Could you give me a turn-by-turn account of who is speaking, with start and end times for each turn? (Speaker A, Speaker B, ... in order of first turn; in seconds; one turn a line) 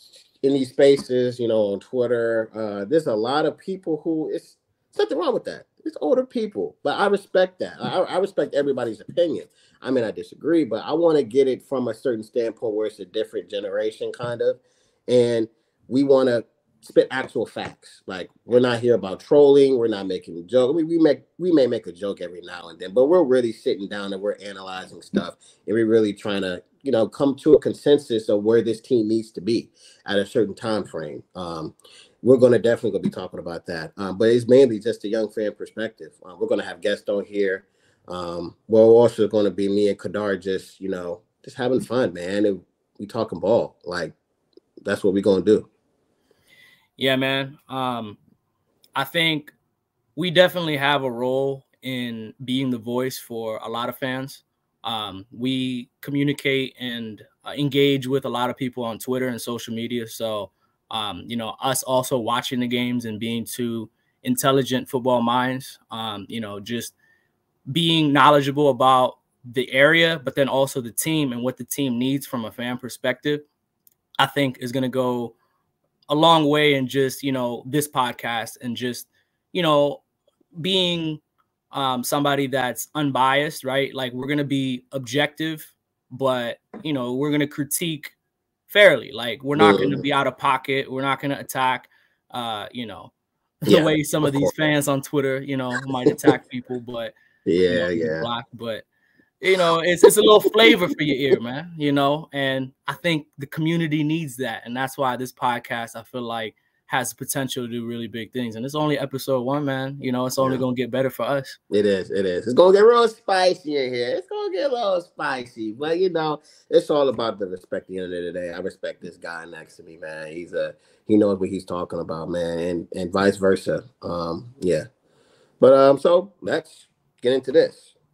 Speaker A: 0.4-44.1
Speaker A: 44.8-45.7
Speaker B: 47.0-48.2
Speaker B: 48.9-49.5
Speaker B: 50.1-66.9
Speaker B: 67.7-73.4
Speaker B: 74.2-75.3
Speaker B: 76.1-80.0
Speaker B: 80.5-81.2
Speaker B: 81.7-88.1
Speaker B: 88.7-93.1
Speaker A: 89.5-90.1
Speaker B: 93.6-97.1
Speaker A: 93.7-94.5
Speaker A: 97.5-98.3
Speaker B: 97.7-98.8
Speaker B: 99.4-111.6
Speaker A: 111.7-124.9
Speaker A: 125.6-127.9